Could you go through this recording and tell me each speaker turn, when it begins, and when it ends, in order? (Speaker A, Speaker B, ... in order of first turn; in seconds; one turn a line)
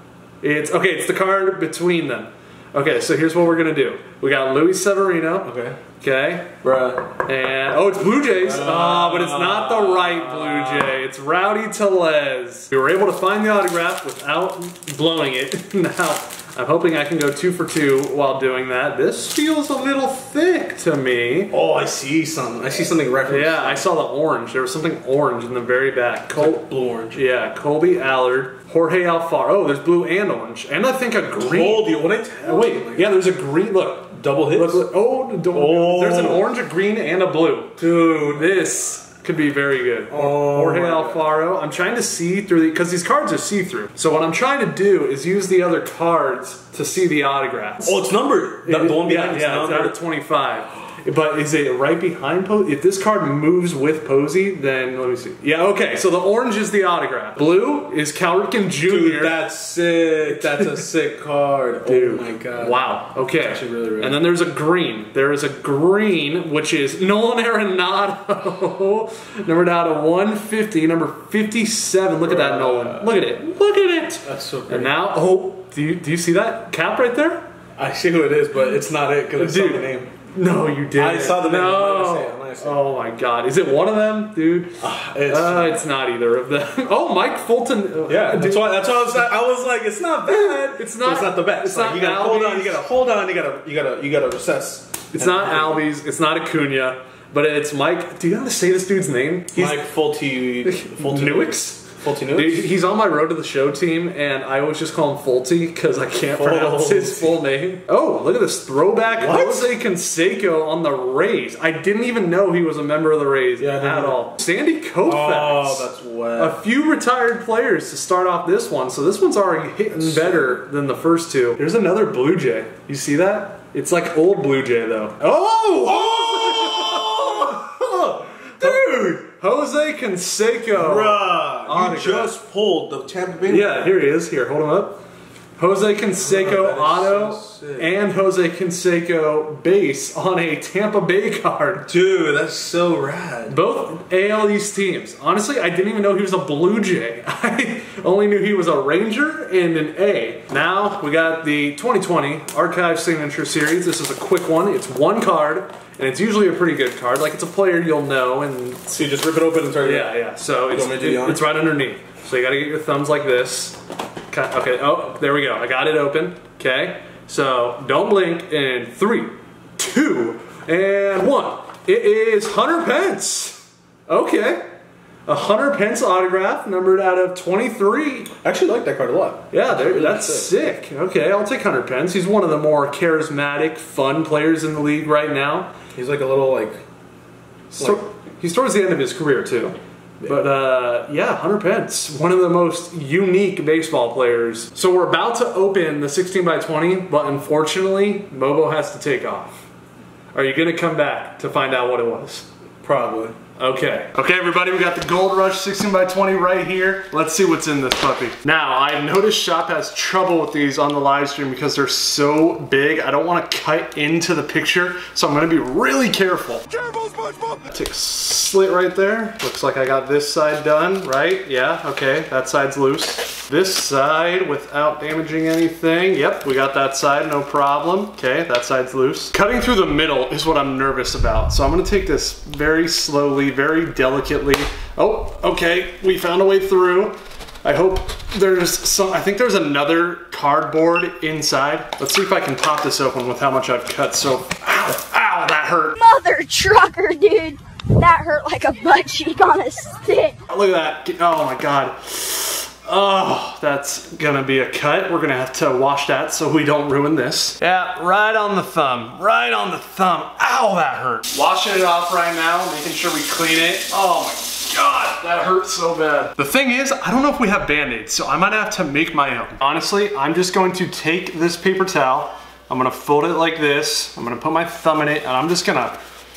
Speaker A: 0.4-5.5
Speaker B: 5.4-5.8
Speaker A: 6.0-6.5
Speaker B: 6.6-7.1
Speaker A: 7.2-21.5
Speaker B: 8.2-11.0
Speaker B: 21.5-23.9
Speaker A: 23.2-31.9
Speaker B: 26.3-27.2
Speaker B: 31.4-33.2
Speaker A: 32.4-48.0
Speaker B: 34.1-34.8
Speaker B: 35.5-36.5
Speaker B: 37.8-38.7
Speaker B: 40.1-41.3
Speaker B: 47.8-50.0
Speaker A: 48.6-59.4
Speaker B: 58.8-64.2
Speaker A: 60.2-60.9
Speaker A: 61.9-77.5
Speaker B: 72.2-73.1
Speaker B: 74.2-74.9
Speaker B: 77.8-80.1
Speaker A: 79.3-89.3
Speaker B: 80.9-82.8
Speaker B: 84.8-85.8
Speaker B: 88.1-95.8
Speaker A: 90.3-92.8
Speaker A: 95.1-99.8
Speaker B: 99.5-102.7
Speaker A: 100.7-132.3
Speaker B: 106.3-107.4
Speaker B: 109.2-109.7
Speaker B: 113.6-114.2
Speaker B: 115.0-116.6
Speaker B: 119.9-120.6
Speaker B: 125.7-128.0
Speaker B: 128.6-129.2
Speaker B: 130.7-133.9
Speaker A: 133.5-135.0
Speaker A: 135.6-141.9
Speaker B: 136.2-137.9
Speaker B: 141.9-143.6
Speaker A: 143.5-159.0
Speaker B: 158.9-160.2
Speaker A: 159.8-163.8
Speaker B: 160.7-161.4
Speaker A: 164.3-174.6
Speaker A: 175.2-178.3
Speaker B: 178.4-180.5
Speaker A: 179.5-185.7
Speaker B: 185.9-186.8
Speaker B: 187.7-188.0
Speaker A: 187.8-199.7
Speaker A: 200.3-202.4
Speaker B: 202.8-203.3
Speaker A: 203.6-216.8
Speaker B: 217.0-217.4
Speaker A: 217.5-246.0
Speaker C: 246.0-250.3
Speaker A: 250.5-276.0